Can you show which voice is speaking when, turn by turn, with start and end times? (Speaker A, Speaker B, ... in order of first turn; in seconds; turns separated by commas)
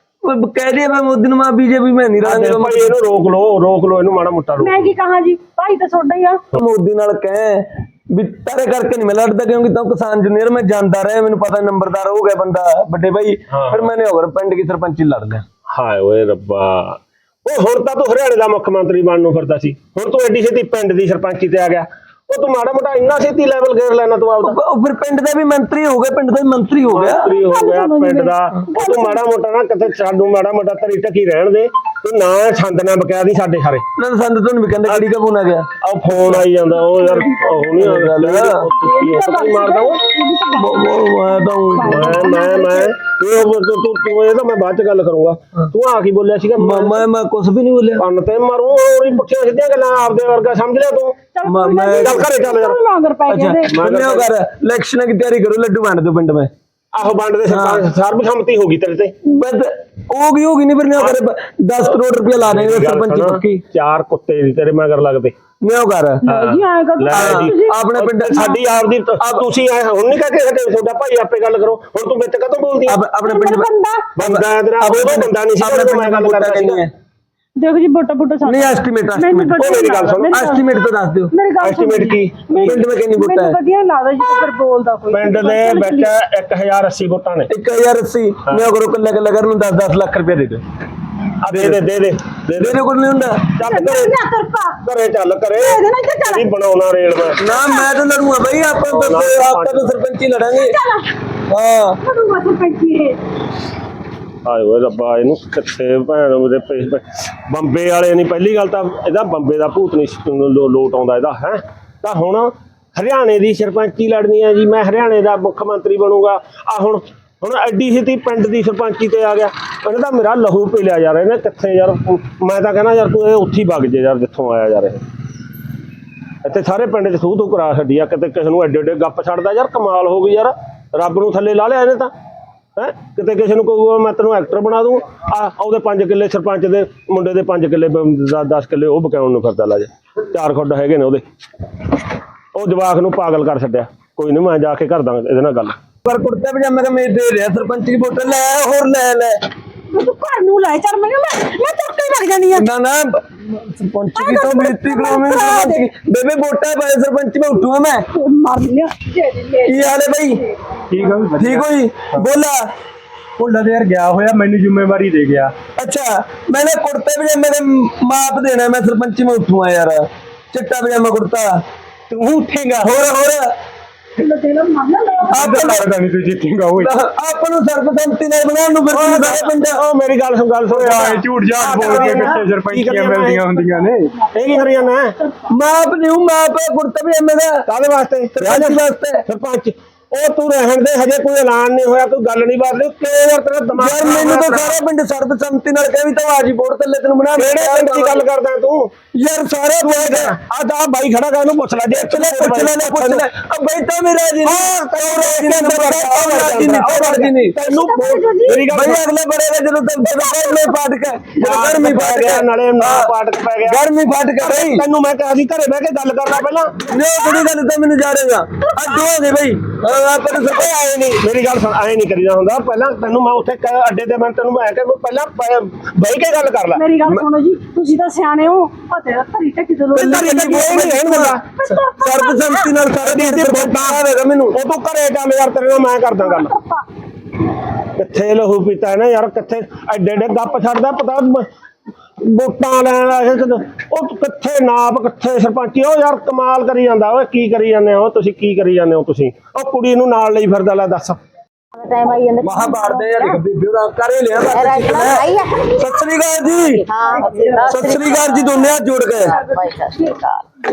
Speaker A: 0.2-2.9, Speaker B: 2.2-4.9, Speaker C: 4.6-6.4, Speaker A: 6.5-15.4, Speaker B: 13.5-13.9, Speaker B: 15.7-24.6, Speaker A: 24.4-27.2, Speaker B: 26.9-33.9, Speaker C: 27.2-29.2, Speaker A: 34.0-36.4, Speaker B: 35.8-40.0, Speaker C: 36.8-37.7, Speaker A: 37.8-38.6, Speaker C: 38.8-40.9, Speaker A: 40.6-42.3, Speaker C: 41.7-42.9, Speaker B: 41.8-47.1, Speaker A: 46.6-48.0, Speaker B: 48.0-51.2, Speaker C: 51.3-53.7, Speaker A: 51.5-52.2, Speaker B: 51.9-52.8, Speaker A: 53.3-56.5, Speaker B: 53.7-54.3, Speaker B: 56.9-59.1, Speaker A: 57.5-57.8, Speaker A: 59.2-63.6, Speaker B: 62.5-65.3, Speaker A: 65.6-66.2, Speaker C: 66.2-68.6, Speaker B: 66.2-73.0, Speaker A: 67.1-68.5, Speaker A: 69.2-69.5, Speaker A: 72.9-76.9, Speaker C: 73.2-74.1, Speaker B: 74.2-76.8, Speaker C: 77.6-80.6, Speaker A: 78.4-79.8, Speaker B: 79.6-80.5, Speaker A: 80.3-81.3, Speaker C: 81.3-86.1, Speaker B: 81.6-82.8, Speaker A: 82.6-83.6, Speaker B: 85.1-87.5, Speaker A: 87.5-90.6, Speaker B: 91.4-92.9, Speaker A: 91.5-91.8, Speaker A: 92.5-93.5, Speaker B: 93.5-94.1, Speaker C: 93.6-94.8, Speaker B: 94.8-97.4, Speaker C: 95.6-96.5, Speaker A: 97.4-100.7, Speaker C: 97.5-97.9, Speaker B: 98.8-100.0, Speaker C: 100.5-101.1, Speaker A: 101.5-102.0, Speaker C: 102.0-103.2, Speaker B: 104.4-125.0, Speaker B: 126.4-132.1, Speaker B: 132.8-141.2, Speaker B: 142.5-145.8, Speaker A: 146.0-149.4, Speaker C: 149.9-152.7, Speaker A: 152.5-158.1, Speaker C: 154.1-155.8, Speaker C: 158.1-159.7, Speaker A: 159.6-160.4, Speaker D: 160.9-161.7, Speaker A: 161.4-162.7, Speaker D: 163.4-165.5, Speaker A: 165.8-171.6, Speaker B: 172.1-173.0, Speaker A: 172.8-173.5, Speaker C: 174.2-175.5, Speaker A: 175.3-175.9, Speaker D: 175.3-176.9, Speaker B: 175.4-175.8, Speaker A: 176.8-179.8, Speaker B: 178.9-185.1, Speaker D: 180.7-184.1, Speaker A: 181.9-182.2, Speaker A: 185.5-187.6, Speaker B: 187.7-194.8, Speaker A: 188.4-189.2, Speaker A: 193.8-198.2, Speaker B: 197.3-198.9, Speaker A: 199.1-200.3, Speaker B: 199.8-203.3, Speaker A: 201.9-207.6, Speaker B: 204.4-209.1, Speaker C: 207.6-208.7, Speaker A: 208.5-213.1, Speaker C: 210.2-210.7, Speaker B: 211.4-216.8, Speaker A: 213.6-214.8, Speaker A: 216.8-220.7, Speaker C: 217.0-217.5, Speaker C: 218.6-219.1, Speaker B: 220.3-227.2, Speaker C: 226.7-230.9, Speaker A: 229.9-234.5, Speaker B: 230.0-231.4, Speaker C: 231.5-232.7, Speaker B: 233.0-236.5, Speaker C: 236.2-236.8, Speaker B: 237.9-241.5, Speaker B: 242.2-251.2, Speaker E: 251.7-253.4, Speaker A: 252.4-256.8, Speaker E: 254.4-256.0, Speaker E: 256.6-260.5, Speaker C: 257.1-257.7, Speaker A: 257.7-259.3